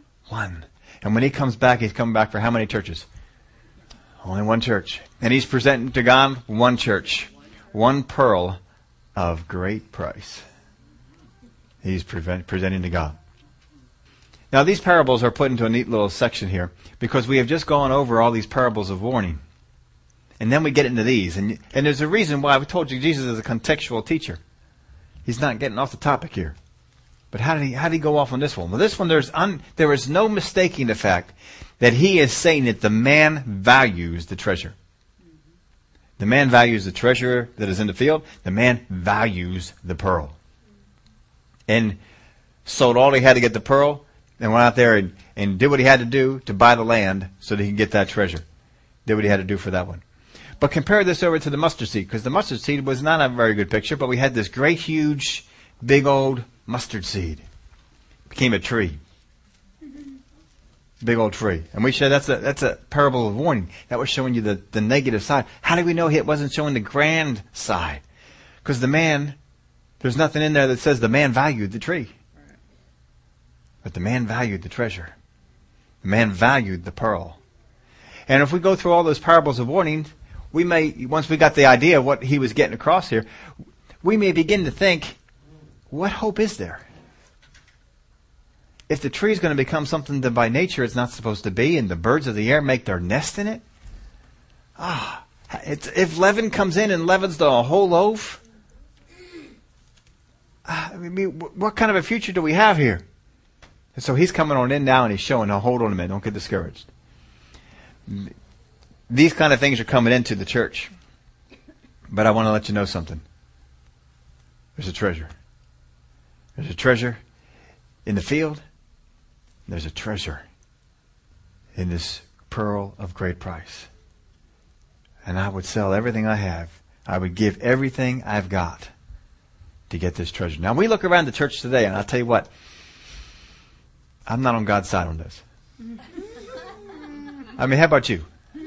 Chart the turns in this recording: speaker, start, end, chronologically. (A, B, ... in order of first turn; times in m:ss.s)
0:00.3-0:03.1 A
0:04.2-0:08.6 A
0:09.2-0:10.4 A
0:11.8-0:13.2 A
0:14.5-0:19.4 A
0:20.4-0:24.4 A
0:25.2-0:26.6 A
0:27.3-0:34.8 A
0:36.2-0:40.4 A
0:41.7-0:42.0 A
0:42.6-0:48.4 A
0:49.1-0:50.0 A
0:50.6-0:57.4 A
0:58.3-0:59.0 A
1:01.0-1:08.0 A
1:08.6-1:09.4 A
1:10.0-1:12.1 A
1:13.8-1:15.1 A
1:16.0-1:17.4 A
1:18.3-1:23.3 A
1:24.0-1:25.2 A
1:25.9-1:26.8 A
1:28.9-1:33.6 A
1:34.8-1:38.4 A
1:40.6-1:43.0 A
1:44.0-1:46.9 A
1:48.1-1:48.3 A
1:49.1-1:50.9 A
1:52.1-1:53.2 A
1:54.8-1:55.3 A
1:56.6-1:57.2 A
1:58.0-1:58.6 A
1:59.7-2:00.4 A
2:01.8-2:03.9 A
2:05.2-2:08.9 A
2:09.9-2:12.5 A
2:14.3-2:15.4 A
2:17.6-2:18.3 A